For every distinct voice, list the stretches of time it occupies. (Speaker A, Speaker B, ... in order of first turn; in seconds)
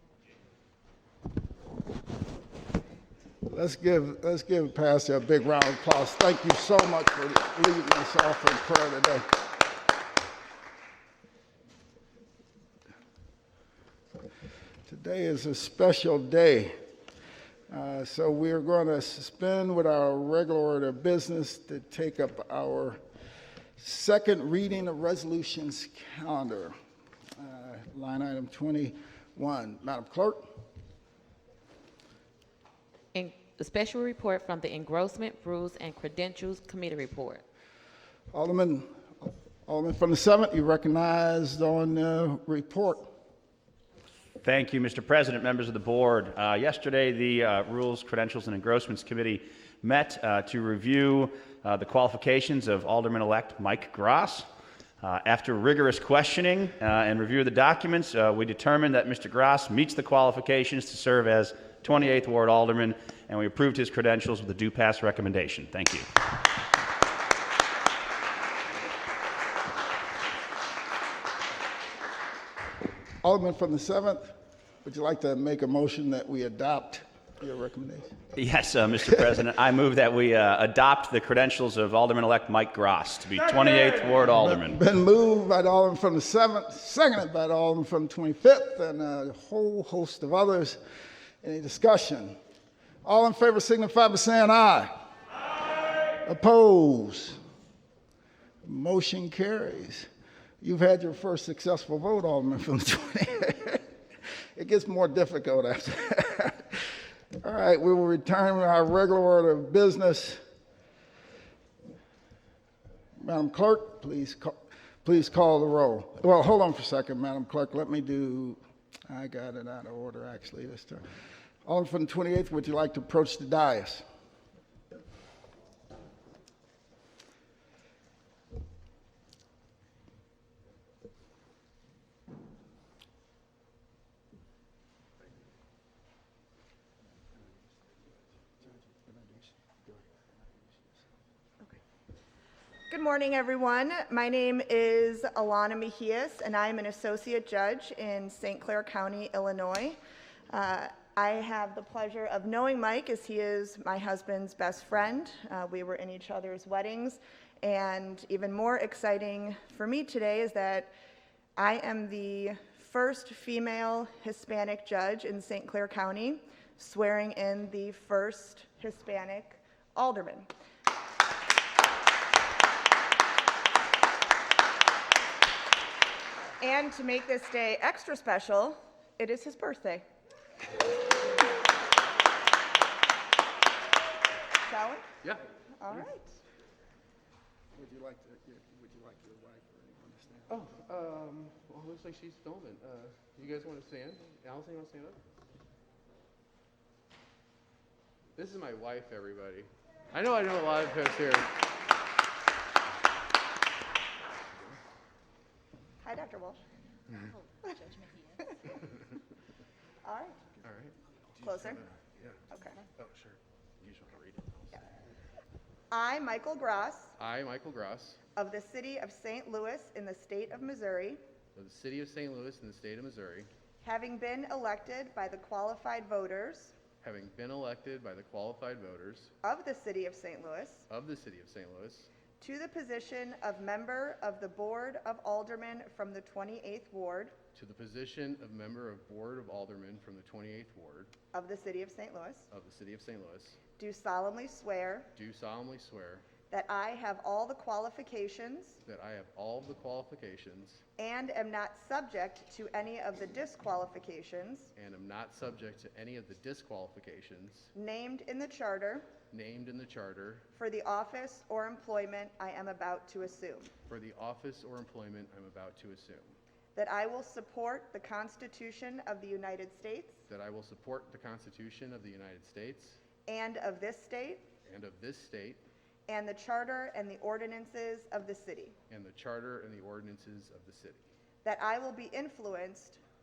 Speaker A: 3.5-9.3, 14.9-16.7, 17.7-23.0, 23.8-26.7, 27.4-30.4, 38.3-43.1, 73.2-78.1, 84.3-90.8, 91.4-92.4, 93.0-94.9, 96.2-97.4, 98.6-100.1, 100.6-103.8, 104.6-106.8, 107.4-110.4, 113.2-121.0, 121.7-124.0, 138.9-139.8, 187.8-190.7
Speaker B: 33.1-37.4
Speaker C: 44.4-54.5, 55.0-66.1, 78.3-84.8
Speaker D: 142.9-150.0, 150.5-160.9, 161.6-170.5, 176.6-180.1, 184.6-185.1, 185.8-186.3, 206.0-206.6, 210.0-210.4, 211.4-211.8, 212.5-212.8, 215.9-217.2, 218.3-221.2, 223.8-226.7, 229.4-230.9, 232.4-237.3, 241.3-242.5, 243.8-245.1, 246.5-248.8, 251.0-254.7, 257.8-259.1, 260.6-263.7, 266.8-270.2, 273.3-274.5, 276.1-278.8, 281.4-283.0
Speaker E: 190.5-195.2, 198.4-201.5, 210.6-210.9, 211.4-212.4, 213.0-214.8, 217.2-218.2, 221.6-223.5, 227.0-229.3, 230.9-232.1, 237.5-241.1, 242.5-243.6, 245.2-246.3, 248.8-250.8, 254.8-257.7, 259.3-260.4, 263.9-266.4, 270.3-273.0, 274.6-275.6, 278.9-281.1